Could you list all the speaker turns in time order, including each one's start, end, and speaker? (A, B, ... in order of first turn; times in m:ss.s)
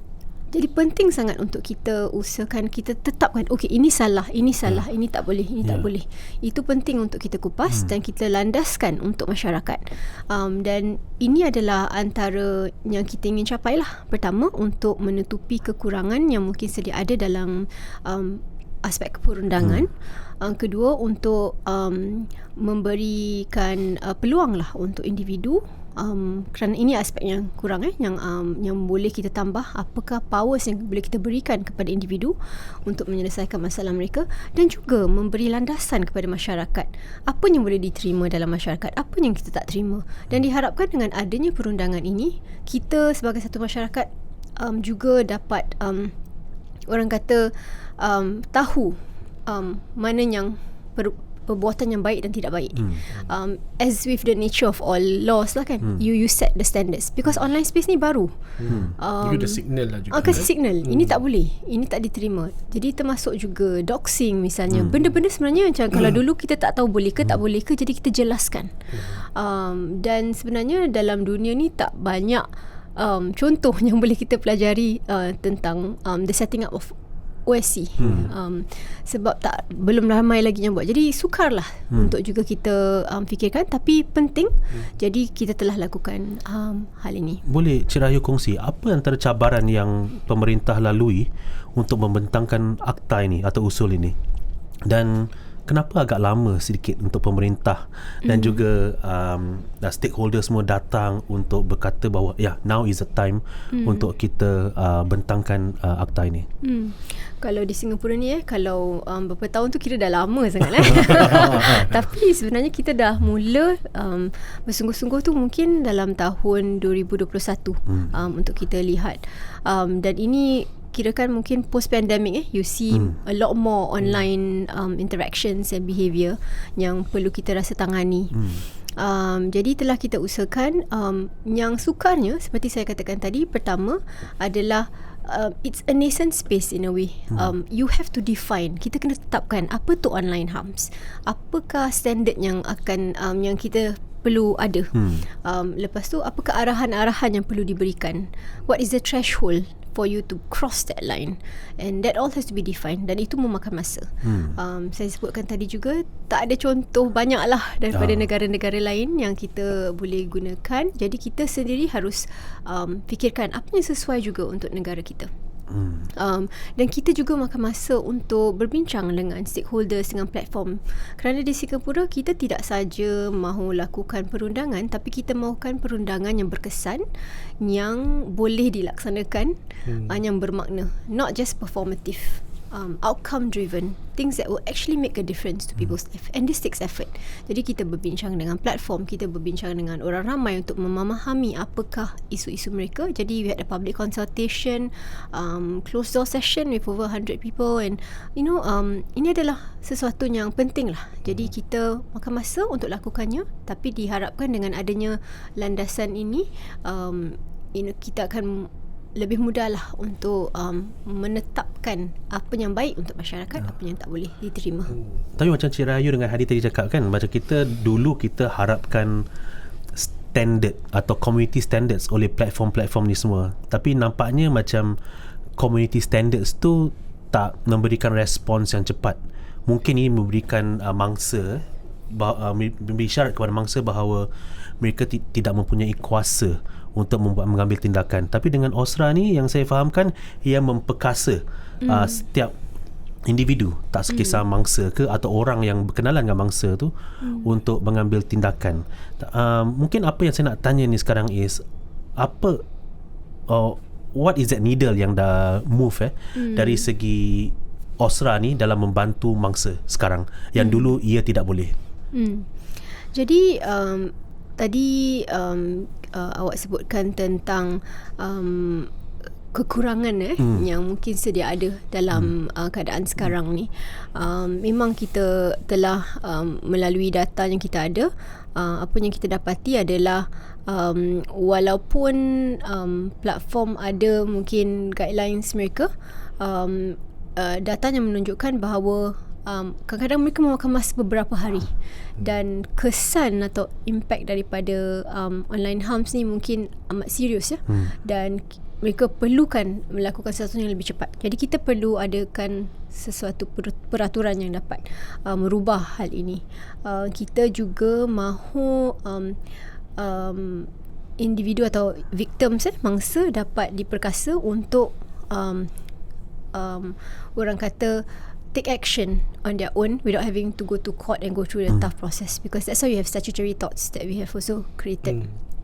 0:00.5-0:46.1 A
0:46.9-0:58.3 A
0:58.6-1:01.2 B
0:58.9-1:12.4 A
1:04.7-1:05.0 C
1:08.9-1:09.2 B
1:13.0-1:16.9 A
1:17.5-1:27.4 A
1:18.0-1:18.3 C
1:27.4-1:34.1 C
1:34.9-1:46.5 C
1:38.2-1:38.6 A
1:43.7-1:44.1 A
1:46.6-2:45.3 A
1:50.9-1:51.9 C
2:08.4-2:08.6 C
2:24.9-2:25.3 C
2:34.2-2:34.6 C
2:37.9-2:38.3 C
2:45.7-2:46.1 C
2:46.2-2:57.0 A
2:57.6-3:35.0 A
2:59.9-3:00.1 B
3:35.4-3:39.2 C
3:39.9-3:44.9 C
3:45.6-3:54.3 C
3:54.8-4:02.5 C
4:01.8-4:02.2 A
4:03.2-4:11.6 C
4:04.1-4:04.4 A
4:07.2-4:07.5 A
4:12.2-4:12.6 C
4:13.5-4:21.8 C
4:16.4-4:16.9 A
4:20.6-4:20.9 A
4:22.1-4:22.5 A
4:23.0-4:28.9 A
4:29.5-5:09.4 A
4:57.7-4:57.9 C
5:10.0-5:15.7 A
5:16.5-5:25.3 A